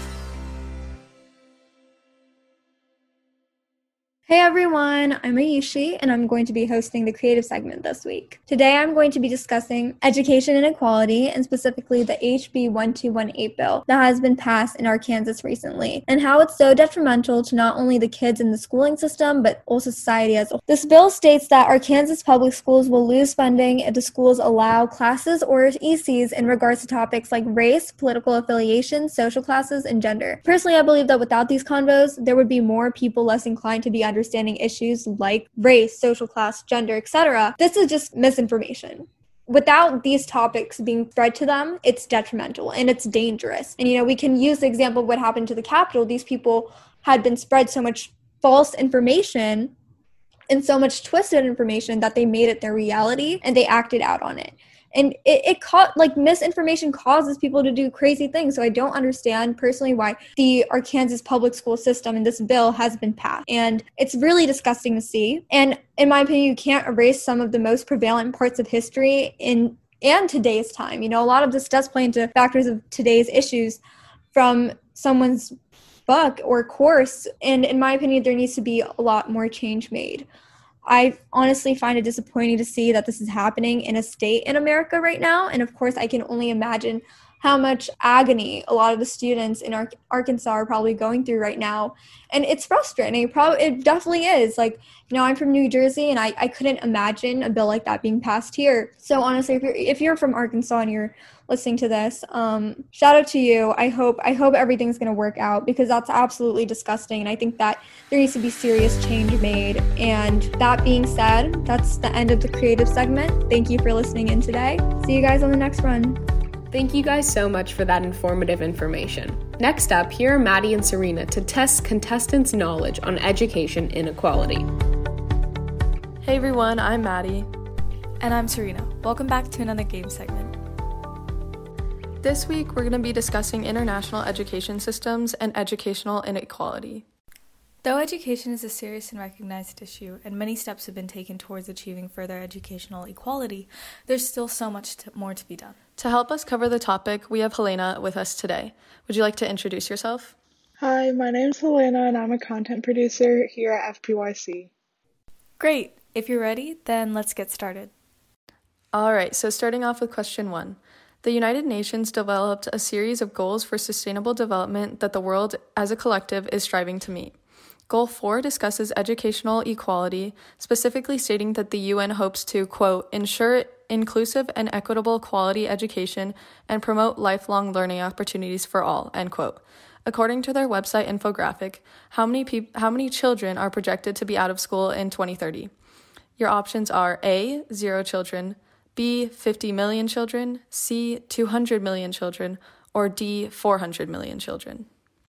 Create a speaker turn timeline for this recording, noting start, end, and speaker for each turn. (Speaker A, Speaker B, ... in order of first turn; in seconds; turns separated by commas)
Speaker A: 4.3-49.7, Speaker A: 50.5-73.8, Speaker A: 74.3-75.5, Speaker A: 76.1-80.3, Speaker A: 80.8-116.2, Speaker B: 116.7-124.7, Speaker C: 126.2-127.5, Speaker D: 128.2-130.6, Speaker C: 132.2-137.0, Speaker D: 137.8-145.8, Speaker C: 146.0-150.3, Speaker E: 150.8-154.7, Speaker D: 155.6-157.9, Speaker C: 158.9-167.3, Speaker C: 167.9-185.7, Speaker C: 186.4-194.9